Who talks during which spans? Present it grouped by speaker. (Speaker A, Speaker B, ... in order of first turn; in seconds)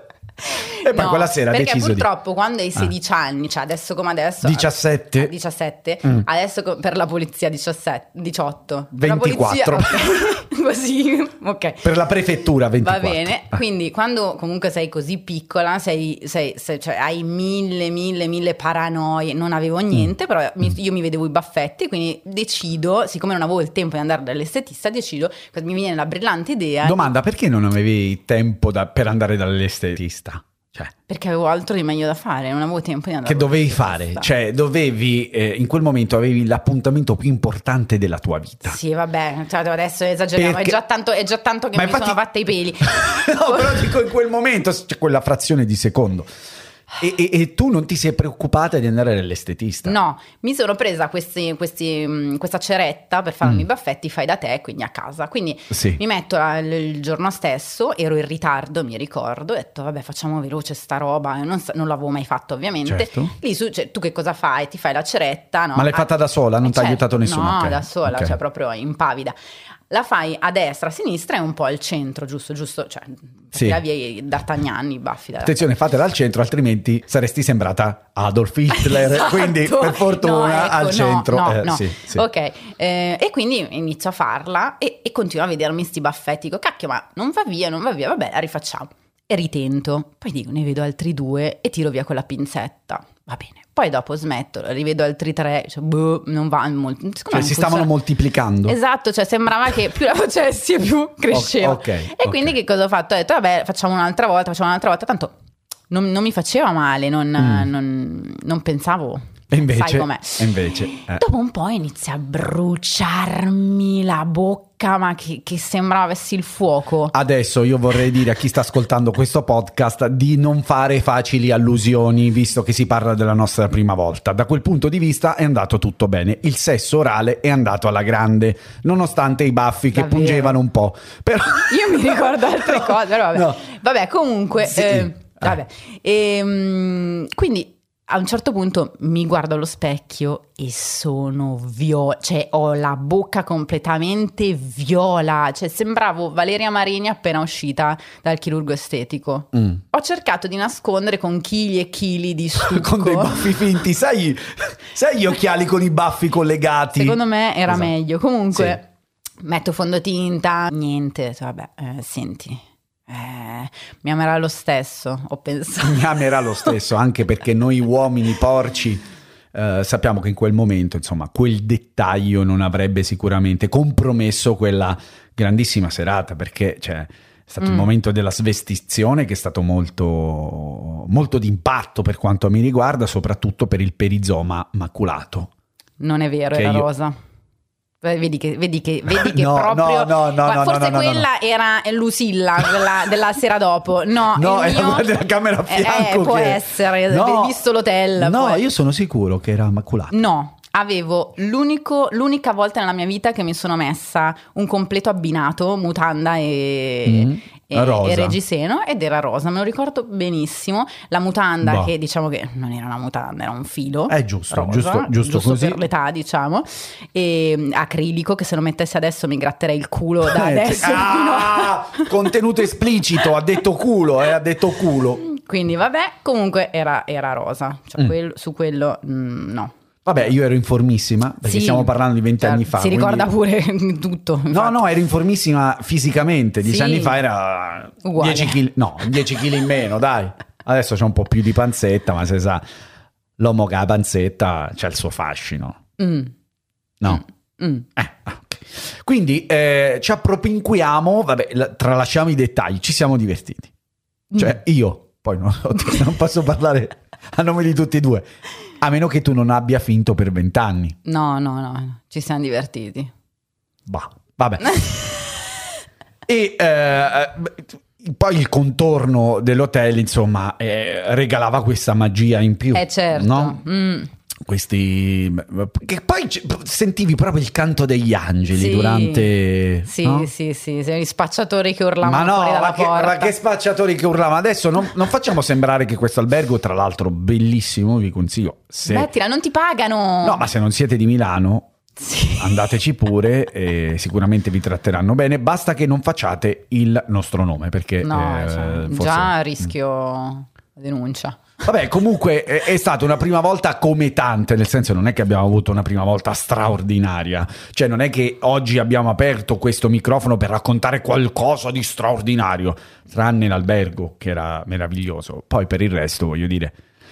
Speaker A: 0.5-11.9, 12.8-27.1, 31.1-34.3, 38.6-43.9, 49.8-66.1, 66.6-69.3, 69.9-75.6, 78.7-97.9, 98.6-105.3, 105.9-117.1, 129.9-130.6, 131.7-153.6, 156.9-158.9, 159.4-166.7, 177.6-177.9, 186.0-187.1, 188.0-198.6, 200.1-222.1, 225.2-230.3, 231.4-234.8, 236.6-237.2, 238.0-238.6, 246.0-246.3, 247.1-247.9, 261.0-263.1, 264.7-265.0, 272.7-274.1, 278.5-279.3, 279.9-283.3, 288.9-290.5, 292.0-292.7, 298.0-301.4
Speaker B: 0.8-2.1, 4.4-5.3, 8.9-10.1, 11.8-13.6, 26.8-30.9, 33.2-38.8, 40.4-40.8, 41.7-42.2, 42.8-46.3, 47.0-50.0, 55.7-56.0, 62.9-63.3, 65.7-68.3, 73.5-73.8, 75.4-82.2, 97.3-98.8, 101.3-102.5, 107.4-107.7, 109.5-111.2, 117.1-133.6, 134.7-135.6, 149.5-149.8, 152.6-157.9, 165.8-185.5, 186.5-186.9, 189.1-191.3, 194.3-197.6, 198.2-200.2, 207.1-208.4, 211.6-211.9, 214.1-215.8, 220.2-225.2, 230.0-233.3, 234.5-242.6, 243.4-245.8, 248.0-253.7, 254.3-258.3, 258.8-260.9, 263.9-264.9, 266.3-273.6, 274.4-280.3, 282.0-289.1, 290.2-291.7, 292.4-299.7, 301.6-316.8